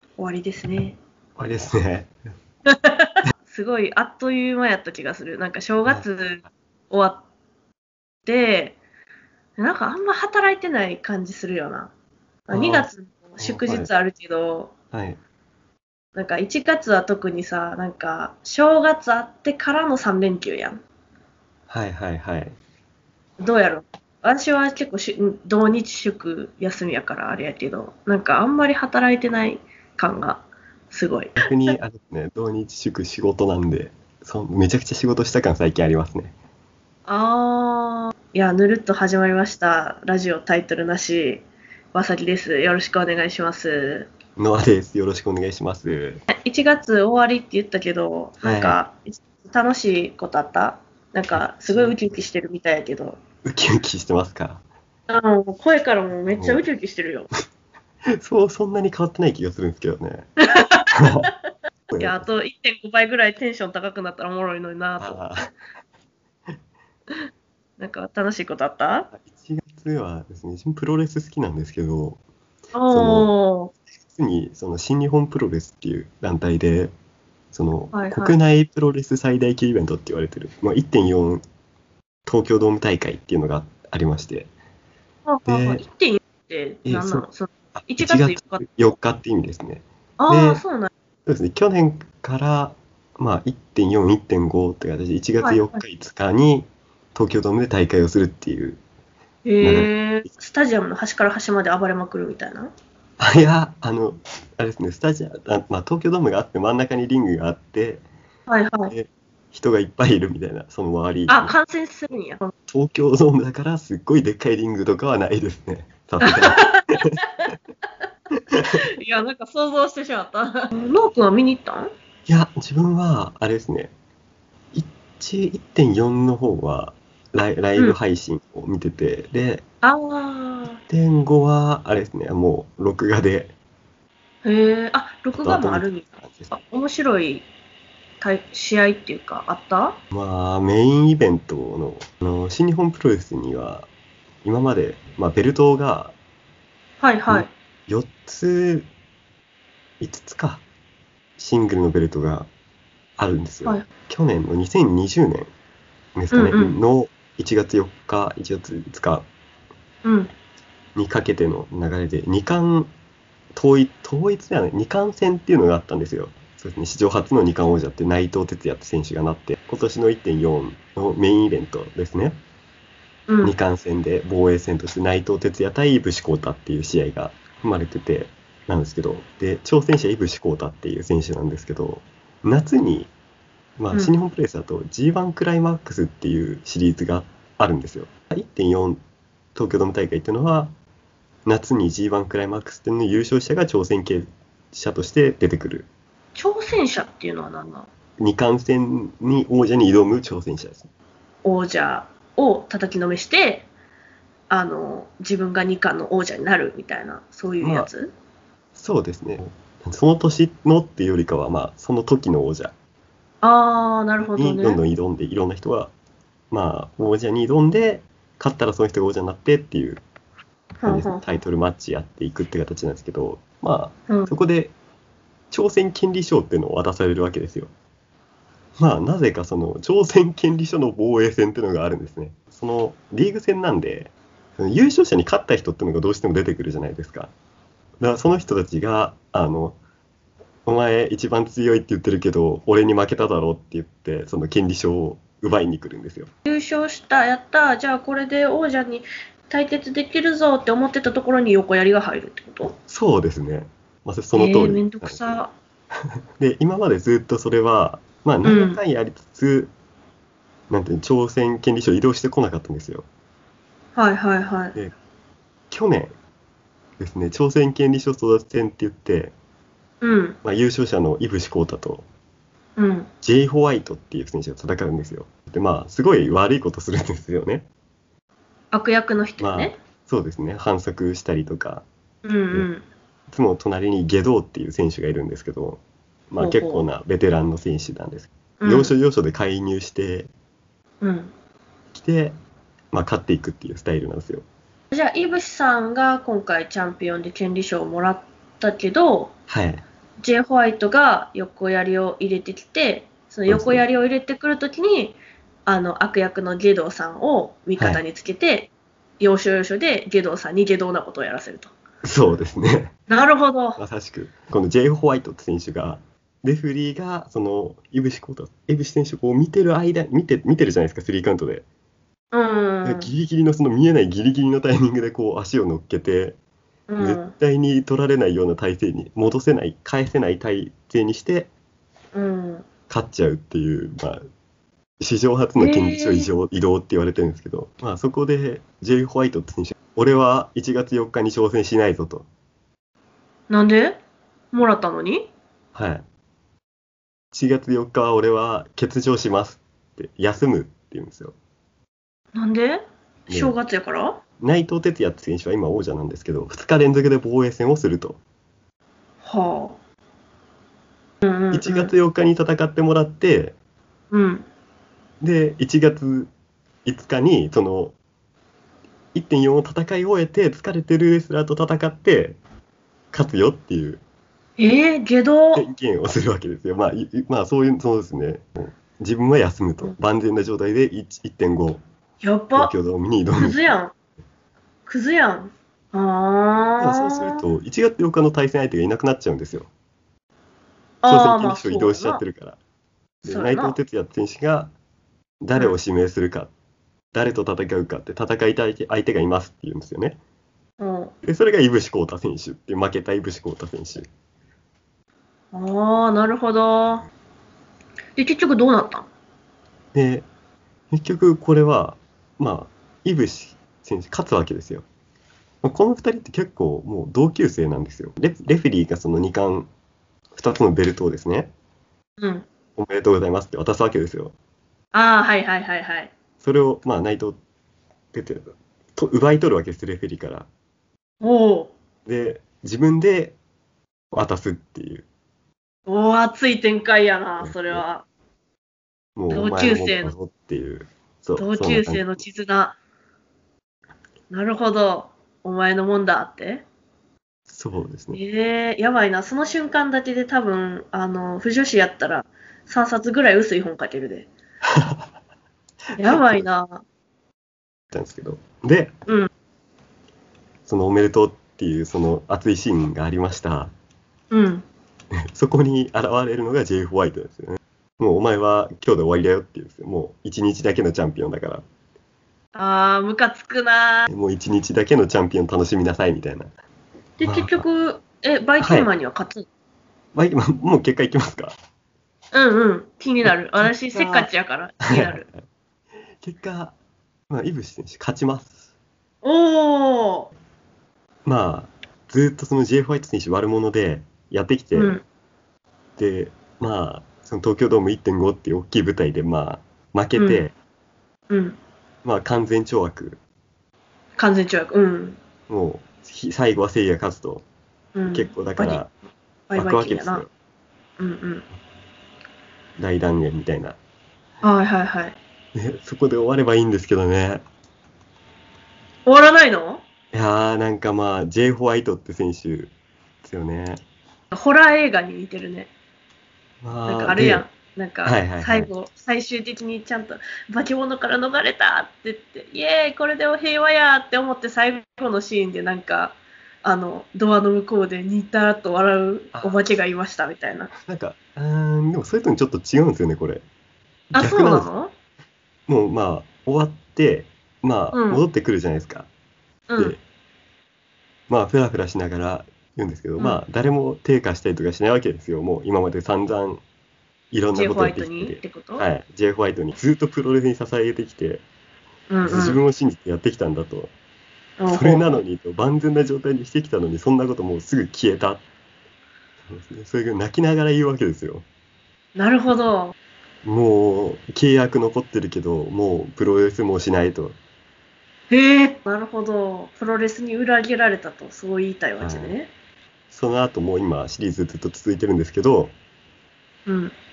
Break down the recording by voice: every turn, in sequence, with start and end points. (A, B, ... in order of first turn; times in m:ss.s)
0:00.2-0:01.0 A
0:01.4-0:02.2 B
0:02.7-0:07.2 A
0:08.2-0:08.8 A
0:09.6-0:11.9 A
0:12.5-0:14.7 A
0:12.5-0:13.9 B
0:14.9-0:15.2 B
0:16.2-0:20.8 A
0:21.7-0:22.6 B
0:23.4-0:31.8 A
0:31.4-0:36.4 B
0:37.1-0:44.1 A
0:44.4-0:46.2 B
0:46.3-0:53.2 A
0:48.4-0:48.8 B
0:51.3-0:52.0 B
0:53.4-0:54.6 B
0:55.1-0:57.3 A
0:56.3-0:56.6 B
0:58.2-1:00.3 B
1:00.5-1:00.9 A
1:00.9-1:01.3 B
1:01.9-1:02.3 B
1:02.0-1:05.2 A
1:05.0-1:05.5 B
1:07.8-1:09.1 A
1:09.1-1:12.2 B
1:12.7-1:13.7 A
1:12.9-1:13.3 B
1:14.1-1:17.0 B
1:17.5-1:21.4 B
1:17.9-1:18.4 A
1:22.3-1:24.5 B
1:25.3-1:28.6 A
1:25.5-1:25.8 B
1:26.9-1:27.2 B
1:27.8-1:30.6 B
1:30.2-1:30.9 A
1:31.3-1:38.8 B
1:35.4-1:35.8 A
1:39.4-1:42.7 A
1:39.6-1:40.3 B
1:43.2-1:48.0 B
1:48.5-1:48.9 A
1:48.9-1:51.6 B
1:51.3-1:52.5 A
1:52.7-1:57.1 B
1:56.2-1:56.9 A
1:59.0-2:01.9 A
2:02.3-2:03.9 B
2:04.7-2:09.6 B
2:09.8-2:10.8 A
2:10.9-2:13.5 B
2:14.4-2:17.5 A
2:15.3-2:16.5 B
2:18.2-2:20.0 A
2:20.1-2:23.9 B
2:24.4-2:26.2 B
2:27.0-2:27.5 A
2:27.3-2:28.9 B
2:30.0-2:30.6 B
2:31.4-2:32.5 B
2:33.2-2:35.5 B
2:36.2-2:39.3 B
2:36.3-2:36.8 A
2:40.0-2:40.3 A
2:41.0-2:42.9 B
2:43.6-2:52.4 B
2:53.3-2:53.6 A
2:53.4-3:03.1 B
3:03.8-3:09.0 B
3:09.6-3:10.7 B
3:11.5-3:15.9 B
3:16.4-3:17.9 A
3:18.2-3:20.9 B
3:21.4-3:23.7 A
3:24.5-3:28.1 A
3:27.6-3:27.9 B
3:28.8-3:32.8 B
3:33.4-3:34.8 A
3:34.3-3:35.9 B
3:36.5-3:40.0 B
3:40.8-3:41.4 A
3:40.8-3:44.8 B
3:44.1-3:44.3 A
3:45.5-3:47.7 B
3:48.8-3:57.3 B
3:58.0-3:59.8 B
4:00.6-4:06.3 B
4:06.5-4:12.8 A
4:12.9-4:15.4 B
4:14.3-4:15.5 A
4:16.4-4:19.7 B
4:18.4-4:18.8 A
4:20.7-4:23.1 B
4:24.0-4:24.8 A
4:25.7-4:26.1 B
4:27.0-4:29.4 B
4:30.0-4:30.4 A
4:30.4-4:32.1 B
4:32.8-4:33.1 A
4:33.2-4:37.7 B
4:38.7-4:39.8 A
4:39.4-4:41.9 B
4:42.2-4:42.8 A
4:43.3-4:50.3 B
4:46.4-4:46.9 A
4:48.6-4:48.9 A
4:51.0-4:51.3 A
4:51.9-4:52.4 B
4:52.9-4:54.5 B
4:54.9-4:59.3 A
4:59.5-4:59.8 B
5:00.2-5:11.7 A
5:03.5-5:03.8 B
5:07.8-5:08.0 B
5:12.0-5:13.0 B
5:13.1-5:13.8 A
5:13.8-5:21.6 B
5:22.3-5:23.1 A
5:22.8-5:26.4 B
5:26.9-5:27.3 A
5:27.0-5:31.5 B
5:32.1-5:32.7 A
5:32.9-5:34.2 B
5:35.0-5:42.3 B
5:35.6-5:36.3 A
5:43.5-5:44.0 A
5:44.5-5:45.3 A
5:45.7-5:46.1 B
5:47.3-5:51.4 B
5:52.4-5:54.2 A
5:53.3-5:53.6 B
5:54.4-5:58.2 B
5:59.2-5:59.8 A
6:01.2-6:01.9 A
6:01.5-6:03.6 B
6:04.1-6:04.5 A
6:05.2-6:06.3 B
6:06.8-6:08.0 B
6:09.1-6:12.4 B
6:13.1-6:14.0 B
6:14.6-6:15.7 A
6:15.6-6:21.8 B
6:22.2-6:22.7 A
6:22.6-6:23.6 B
6:23.4-6:23.9 A
6:24.9-6:27.4 A
6:26.8-6:29.7 B
6:31.0-6:32.2 A
6:31.1-6:32.6 B
6:33.2-6:33.8 A
6:33.2-6:34.7 B
6:35.4-6:36.5 B
6:37.1-6:40.2 B
6:40.8-6:41.1 A
6:41.2-6:44.1 B
6:45.5-6:47.1 A
6:48.2-6:49.1 A
6:49.9-6:50.3 B
6:50.9-6:54.9 B
6:55.6-6:59.7 B
7:00.3-7:01.5 B
7:02.2-7:02.5 A
7:02.8-7:04.4 B
7:04.9-7:06.1 A
7:06.4-7:07.4 B
7:08.1-7:10.5 B
7:11.2-7:11.7 A
7:12.1-7:13.4 B
7:14.1-7:15.1 B
7:15.9-7:18.0 A
7:17.4-7:17.9 B
7:19.2-7:22.2 B
7:19.3-7:20.1 A
7:21.4-7:22.8 A
7:24.3-7:26.6 A
7:27.5-7:28.2 B
7:28.1-7:34.3 A
7:36.0-7:36.5 B
7:36.0-7:36.8 A
7:37.9-7:39.0 B
7:40.7-7:43.7 B
7:44.3-7:44.7 A
7:45.3-7:51.6 B
7:52.6-7:54.1 A
7:54.1-7:56.5 B
7:57.2-7:59.5 A
7:57.2-7:57.6 B
7:58.6-7:58.9 B
8:00.1-8:01.6 B
8:02.3-8:05.2 A
8:03.2-8:04.3 B
8:04.8-8:05.4 B
8:06.2-8:06.8 B
8:07.3-8:08.6 B
8:09.2-8:10.3 A
8:11.2-8:15.0 B
8:14.8-8:15.0 A
8:16.0-8:20.5 B
8:20.2-8:20.4 A
8:21.3-8:21.6 A
8:22.0-8:23.2 B
8:24.2-8:25.2 A
8:25.5-8:27.5 B
8:28.0-8:28.8 A
8:28.1-8:28.9 B
8:29.5-8:30.2 A
8:29.6-8:30.3 B
8:31.0-8:31.5 A
8:32.8-8:33.8 B
8:34.4-8:35.2 A
8:35.6-8:37.5 B
8:39.0-8:39.8 A
8:40.1-8:42.7 B
8:43.2-8:43.8 B
8:44.3-8:45.7 A
8:46.6-8:47.4 B
8:46.9-9:00.7 A
8:48.0-8:48.7 B
8:59.3-8:59.6 B
9:00.7-9:03.4 B
9:04.1-9:04.9 A
9:04.2-9:04.7 B
9:05.7-9:09.1 B
9:07.9-9:08.2 A
9:09.7-9:10.0 A
9:11.3-9:16.6 B
9:17.3-9:21.4 B
9:17.5-9:18.9 A
9:22.1-9:22.6 A
9:22.2-9:23.9 B
9:24.6-9:25.2 A
9:24.7-9:28.4 B
9:29.5-9:31.5 B
9:32.2-9:33.0 A
9:33.4-9:37.4 B
9:38.3-9:42.5 A
9:42.0-9:42.4 B
9:43.1-9:45.8 B
9:46.7-9:47.0 A